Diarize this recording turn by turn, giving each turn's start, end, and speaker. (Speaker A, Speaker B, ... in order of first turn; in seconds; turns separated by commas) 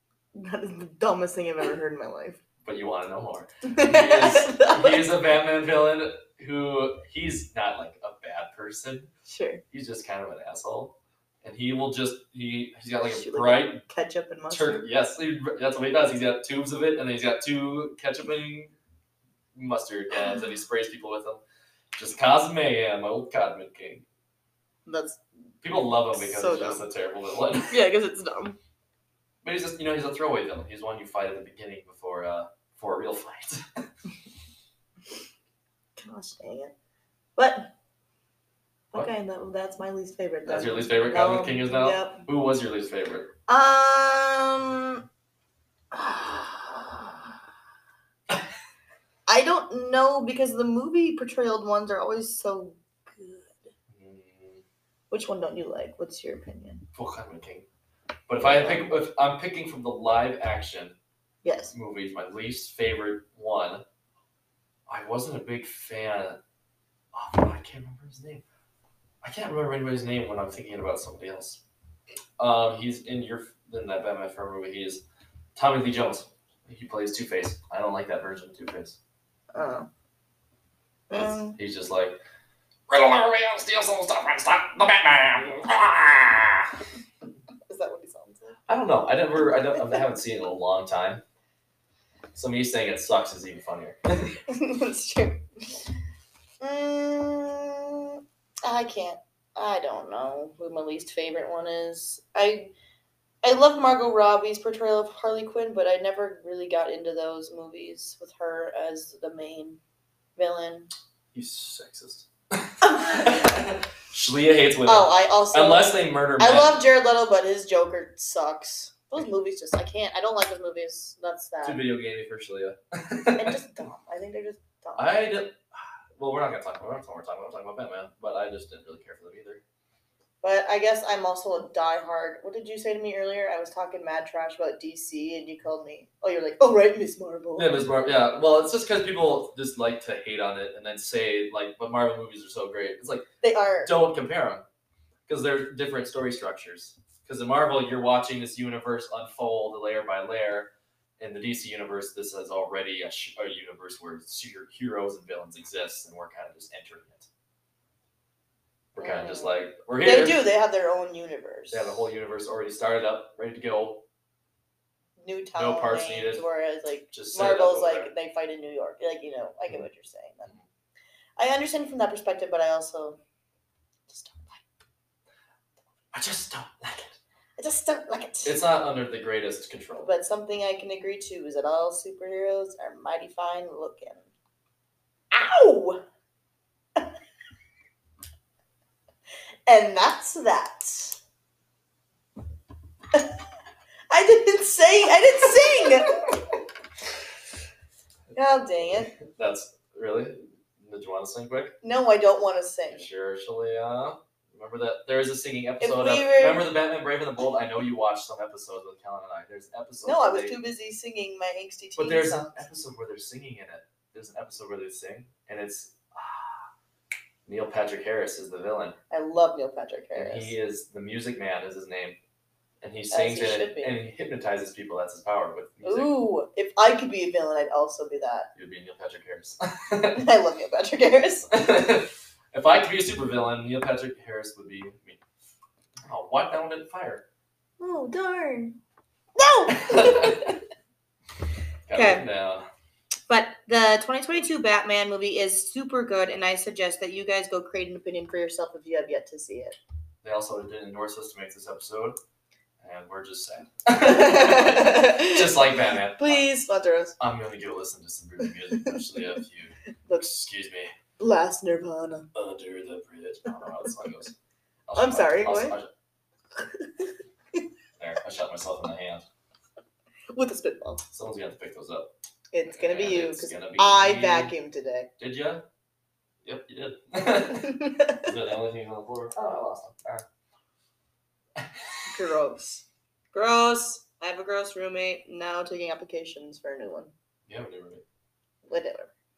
Speaker A: 0.3-2.4, Speaker B: 2.6-9.1, Speaker A: 3.6-5.1, Speaker A: 9.2-9.6, Speaker B: 9.7-13.8, Speaker A: 13.1-14.9, Speaker B: 14.5-18.7, Speaker B: 19.5-21.4, Speaker A: 20.1-20.4, Speaker B: 21.9-24.0, Speaker A: 24.9-25.2, Speaker B: 25.6-27.8, Speaker A: 26.1-26.8, Speaker A: 27.7-28.6, Speaker B: 29.4-33.8, Speaker A: 36.0-36.7, Speaker A: 37.4-37.7, Speaker A: 38.9-42.3, Speaker B: 40.5-43.3, Speaker A: 43.5-45.0, Speaker A: 45.9-47.3, Speaker A: 49.3-53.7, Speaker B: 53.9-54.6, Speaker A: 55.1-56.8, Speaker B: 56.9-57.6, Speaker B: 58.3-61.0, Speaker A: 58.4-58.9, Speaker A: 61.4-61.7, Speaker B: 61.7-63.8, Speaker B: 64.9-66.4, Speaker B: 67.1-68.4, Speaker B: 69.2-71.6, Speaker B: 72.4-75.0, Speaker B: 75.5-79.0, Speaker A: 79.5-79.9, Speaker A: 81.1-81.6, Speaker B: 81.1-82.2, Speaker B: 82.9-86.7, Speaker A: 87.7-88.6, Speaker B: 88.7-91.2, Speaker B: 92.3-94.4, Speaker A: 94.5-95.8, Speaker A: 96.6-102.7, Speaker A: 103.4-109.8, Speaker A: 110.3-110.9, Speaker B: 111.3-116.8, Speaker A: 112.8-113.4, Speaker A: 114.8-121.8, Speaker B: 121.6-123.6, Speaker A: 123.3-125.2, Speaker B: 125.0-129.6, Speaker A: 130.4-137.9, Speaker B: 137.6-143.3, Speaker A: 143.4-143.9, Speaker B: 143.8-144.6, Speaker B: 145.3-157.3, Speaker B: 158.9-160.4, Speaker A: 159.0-162.1, Speaker B: 161.7-164.0, Speaker A: 165.2-170.5, Speaker B: 165.5-166.4, Speaker B: 167.1-168.1, Speaker A: 171.4-173.2, Speaker A: 174.1-174.6, Speaker B: 176.1-177.2, Speaker A: 177.6-178.6, Speaker B: 178.4-180.1, Speaker A: 180.0-184.3, Speaker A: 185.3-186.0, Speaker A: 189.7-191.2, Speaker A: 194.1-196.4, Speaker A: 198.3-199.2, Speaker B: 199.2-201.8, Speaker A: 201.8-203.1, Speaker B: 202.9-210.6, Speaker A: 205.8-206.7, Speaker A: 210.0-212.7, Speaker B: 212.0-216.7, Speaker B: 217.4-218.9, Speaker A: 219.1-220.6, Speaker B: 220.1-222.2, Speaker B: 222.8-226.2, Speaker A: 223.1-223.9, Speaker A: 225.8-228.5, Speaker B: 228.5-230.2, Speaker A: 230.1-231.5, Speaker B: 231.5-235.2, Speaker B: 236.0-237.2, Speaker A: 237.8-238.7, Speaker A: 239.3-240.6, Speaker B: 239.7-240.6, Speaker B: 241.9-242.7, Speaker A: 241.9-242.2, Speaker A: 243.3-249.8, Speaker B: 250.2-252.2, Speaker B: 252.8-256.5, Speaker A: 253.9-257.2, Speaker B: 257.2-260.9, Speaker A: 258.7-259.4, Speaker A: 260.0-260.3, Speaker A: 261.2-262.3, Speaker B: 262.3-264.3, Speaker B: 264.9-265.9, Speaker A: 264.9-265.8, Speaker A: 266.5-267.6, Speaker B: 268.0-269.2, Speaker A: 270.3-271.0, Speaker B: 271.1-272.1, Speaker A: 272.5-275.1, Speaker B: 272.7-274.5, Speaker B: 275.2-275.6, Speaker B: 276.4-280.2, Speaker A: 277.6-278.2, Speaker B: 281.6-281.9, Speaker A: 282.1-287.1, Speaker B: 287.5-288.0, Speaker A: 288.7-289.1